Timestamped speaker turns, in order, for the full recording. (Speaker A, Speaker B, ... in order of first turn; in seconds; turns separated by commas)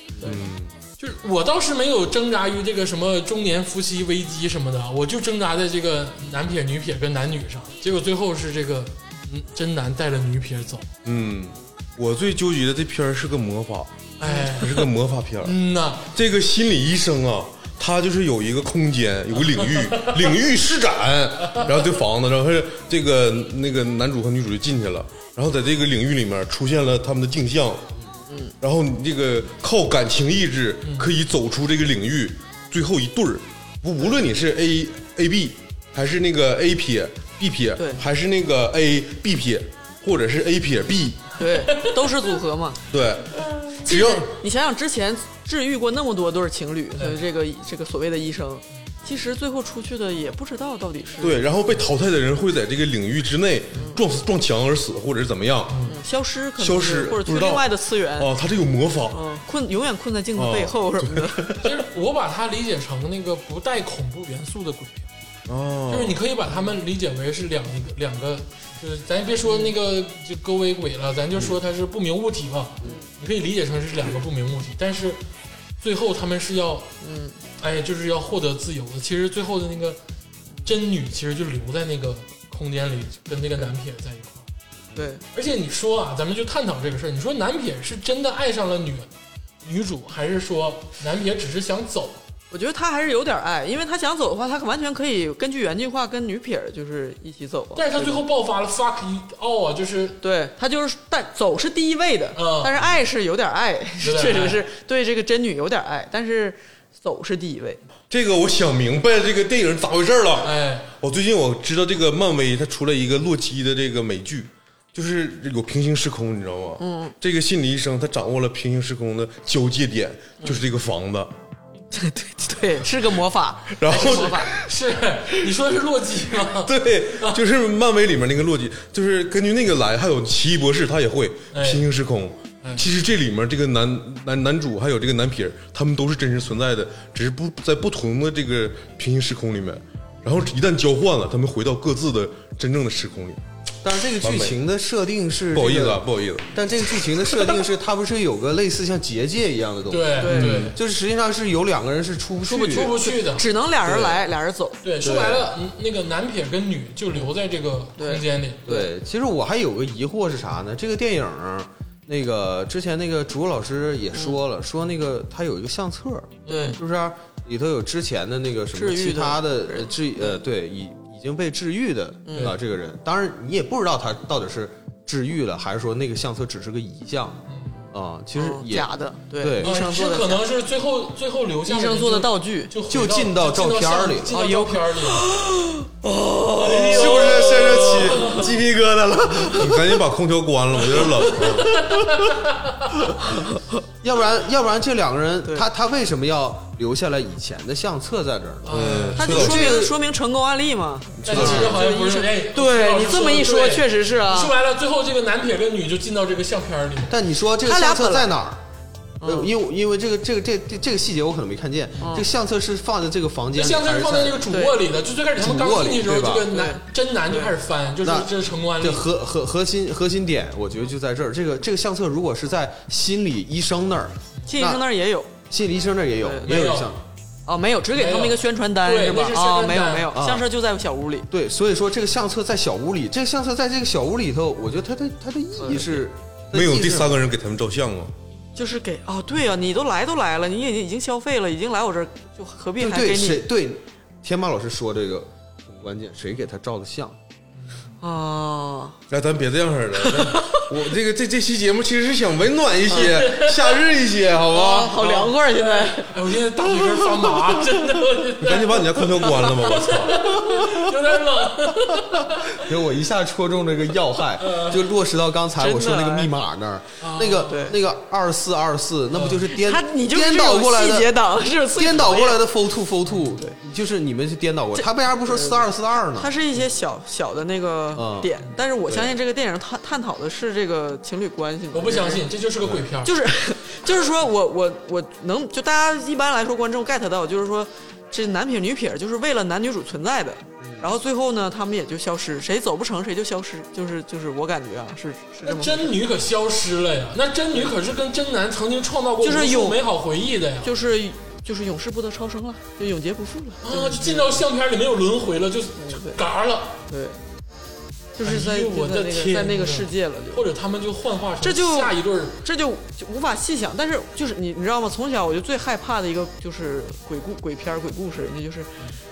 Speaker A: 0.2-0.7, Speaker B: 1.0-10.9, Speaker A: 11.1-15.6, Speaker B: 14.2-14.9, Speaker B: 15.4-16.1, Speaker A: 16.1-27.9, Speaker B: 19.6-20.4, Speaker A: 28.6-41.4, Speaker B: 30.8-31.1, Speaker C: 37.8-38.0, Speaker C: 41.4-42.8, Speaker A: 42.9-44.3, Speaker C: 43.8-51.5, Speaker B: 47.0-47.2, Speaker A: 51.2-55.8, Speaker B: 55.7-56.0, Speaker C: 55.9-58.3, Speaker A: 56.6-59.2, Speaker C: 59.1-61.6, Speaker A: 60.4-61.6, Speaker B: 61.6-65.1, Speaker A: 65.5-66.2, Speaker B: 65.9-75.2, Speaker C: 69.5-69.7, Speaker B: 75.8-76.9, Speaker C: 77.0-77.4, Speaker B: 77.6-80.0, Speaker B: 80.6-84.5, Speaker C: 85.0-85.2, Speaker B: 85.3-89.1, Speaker B: 89.6-92.2, Speaker C: 92.5-98.2, Speaker B: 97.8-100.2, Speaker C: 100.2-107.8, Speaker B: 102.4-102.8, Speaker B: 104.0-104.6, Speaker A: 108.1-121.3, Speaker B: 110.4-110.9, Speaker C: 116.8-117.2, Speaker C: 121.9-124.5, Speaker A: 123.7-124.5, Speaker B: 123.9-127.4, Speaker A: 126.6-143.4, Speaker B: 131.5-131.8, Speaker D: 143.8-152.9, Speaker A: 144.2-144.6, Speaker A: 145.5-147.3, Speaker B: 149.9-150.8, Speaker C: 150.2-150.6, Speaker A: 150.3-150.7, Speaker C: 152.5-154.8, Speaker B: 152.5-153.5, Speaker D: 153.8-154.2, Speaker B: 154.8-158.7, Speaker D: 155.0-155.5, Speaker C: 158.0-158.9, Speaker D: 158.7-179.8, Speaker B: 166.5-166.8, Speaker C: 166.5-166.8, Speaker C: 168.7-170.3, Speaker C: 172.3-172.5, Speaker B: 177.5-177.9, Speaker C: 178.3-180.4, Speaker B: 179.6-185.3, Speaker C: 181.7-182.7, Speaker D: 182.9-184.4, Speaker C: 184.3-187.0, Speaker A: 186.6-192.1, Speaker B: 186.6-188.5, Speaker B: 191.2-193.0, Speaker D: 194.0-200.0, Speaker B: 198.6-199.4, Speaker A: 198.7-199.8, Speaker C: 199.2-204.5, Speaker A: 201.2-201.8, Speaker B: 201.2-207.1, Speaker D: 201.4-201.7, Speaker D: 207.1-208.6, Speaker C: 207.6-208.4, Speaker C: 209.2-209.5, Speaker D: 209.2-214.5, Speaker C: 212.0-212.3, Speaker B: 213.6-219.1, Speaker C: 214.5-214.8, Speaker D: 215.4-216.5, Speaker C: 216.5-217.5, Speaker D: 218.0-224.8, Speaker C: 224.5-225.3, Speaker D: 225.5-227.0, Speaker C: 226.2-226.6, Speaker B: 226.4-226.9, Speaker C: 227.5-231.3, Speaker B: 227.9-230.2, Speaker D: 230.1-230.5, Speaker D: 231.3-237.2, Speaker C: 235.6-236.0, Speaker A: 236.5-238.1, Speaker C: 238.6-243.5, Speaker D: 242.8-247.2, Speaker B: 247.6-247.9, Speaker C: 248.0-249.0, Speaker A: 249.1-255.0, Speaker C: 250.0-250.8, Speaker B: 252.9-253.8, Speaker C: 254.5-256.2, Speaker B: 255.0-262.7, Speaker A: 258.4-260.7, Speaker D: 262.6-271.2, Speaker B: 264.4-264.9, Speaker C: 265.6-266.3, Speaker B: 267.0-267.7, Speaker C: 267.4-267.8, Speaker B: 269.1-269.5, Speaker C: 269.5-272.5, Speaker D: 271.7-276.4, Speaker C: 274.8-282.3, Speaker D: 277.9-278.3, Speaker D: 278.9-279.2, Speaker B: 281.7-283.2, Speaker C: 283.0-295.9, Speaker D: 290.6-290.9, Speaker B: 295.4-300.7, Speaker C: 299.2-299.8, Speaker C: 300.6-304.4, Speaker B: 303.6-306.8, Speaker C: 305.8-306.2, Speaker C: 306.9-307.2, Speaker C: 308.2-310.5, Speaker B: 308.2-312.4, Speaker C: 311.4-318.8